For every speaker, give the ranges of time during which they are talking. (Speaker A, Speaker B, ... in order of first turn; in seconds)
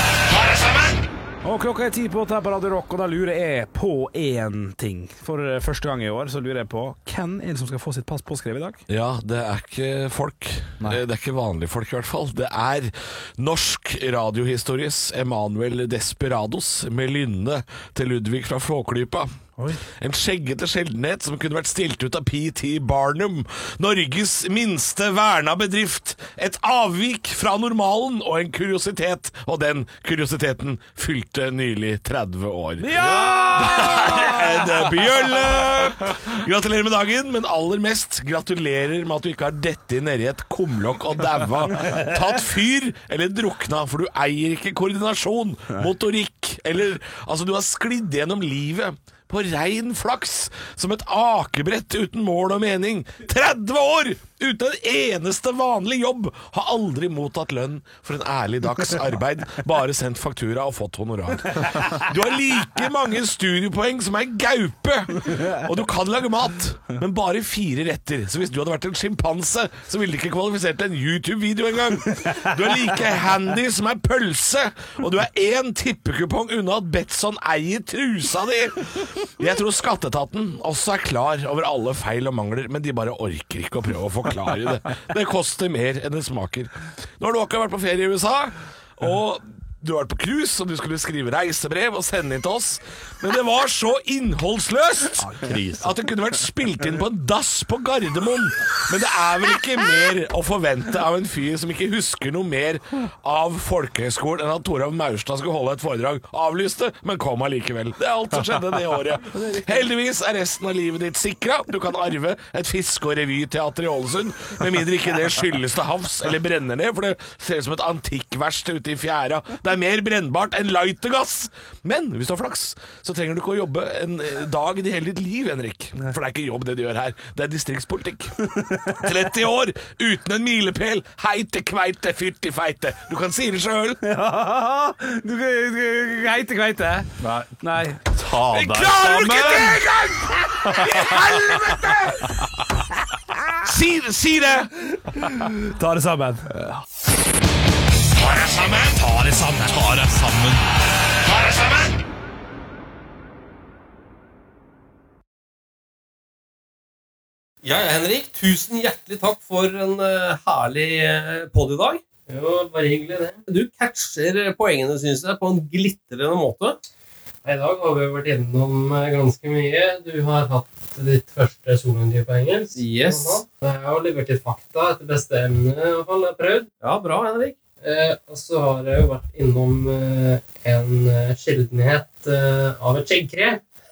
Speaker A: 0.3-1.0, 8.9-128.4, 129.0-134.0, 138.5-142.2, 143.7-144.7, 148.4-148.9, 151.3-151.9
Speaker B: 1.4-8.7, 19.6-19.8, 32.8-35.2, 95.2-95.9, 134.0-139.8, 140.6-141.9, 145.3-146.8
Speaker C: 7.2-7.5, 148.9-150.6
Speaker D: 157.6-162.0, 163.5-166.8, 172.8-173.4, 176.8-177.6
Speaker E: 162.3-163.4, 167.4-176.7, 177.8-183.6